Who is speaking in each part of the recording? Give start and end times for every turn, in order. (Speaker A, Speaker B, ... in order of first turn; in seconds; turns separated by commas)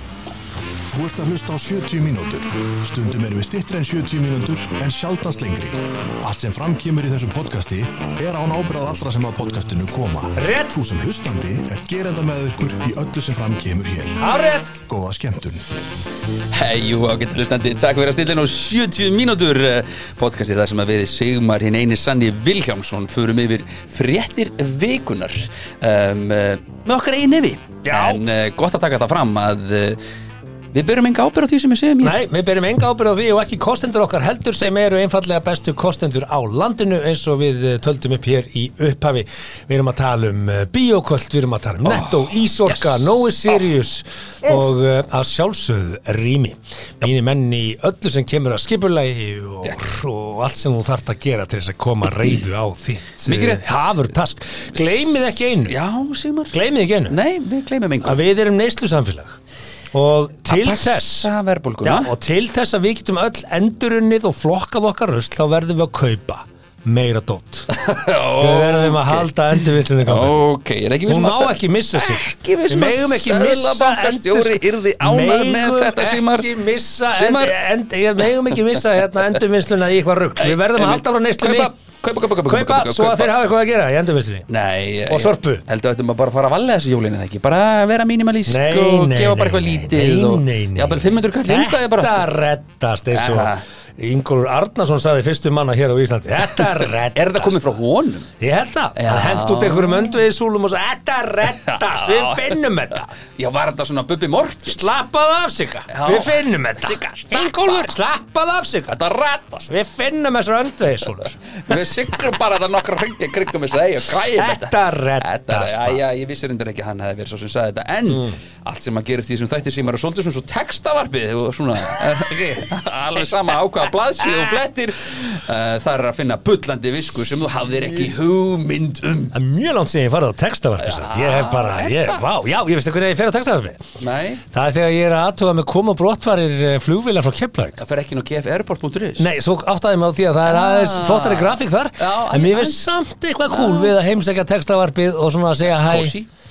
Speaker A: 0.9-14.2, Speaker B: 10.4-10.7, Speaker B: 14.2-14.8, Speaker A: 14.9-15.7, Speaker C: 16.5-30.0, Speaker B: 27.8-28.2, Speaker C: 30.7-32.2, Speaker B: 32.0-55.8, Speaker C: 41.8-43.2, Speaker C: 53.2-54.1, Speaker C: 55.6-56.5, Speaker B: 56.5-57.2, Speaker C: 57.1-58.2, Speaker B: 58.0-59.4, Speaker B: 59.9-61.3, Speaker C: 60.5-62.1, Speaker B: 61.8-67.7, Speaker C: 67.7-76.5, Speaker B: 68.4-70.4, Speaker B: 71.1-81.7, Speaker C: 77.1-77.6, Speaker C: 78.2-79.4, Speaker C: 80.4-83.3, Speaker B: 82.4-84.5, Speaker C: 84.5-92.2, Speaker B: 85.1-85.6, Speaker B: 88.5-97.6, Speaker C: 93.1-93.6, Speaker C: 96.5-98.3, Speaker B: 98.4-103.1, Speaker C: 98.9-100.2, Speaker C: 101.6-105.0, Speaker B: 104.7-109.0, Speaker C: 105.9-107.9, Speaker C: 108.9-109.7, Speaker B: 109.7-111.8, Speaker C: 111.1-129.3, Speaker B: 114.1-116.0, Speaker B: 118.1-118.4, Speaker B: 129.3-137.8, Speaker C: 130.8-132.3, Speaker C: 134.0-134.4, Speaker C: 137.8-139.3, Speaker B: 139.2-146.2, Speaker C: 140.4-142.8, Speaker C: 143.5-143.9, Speaker C: 145.8-146.3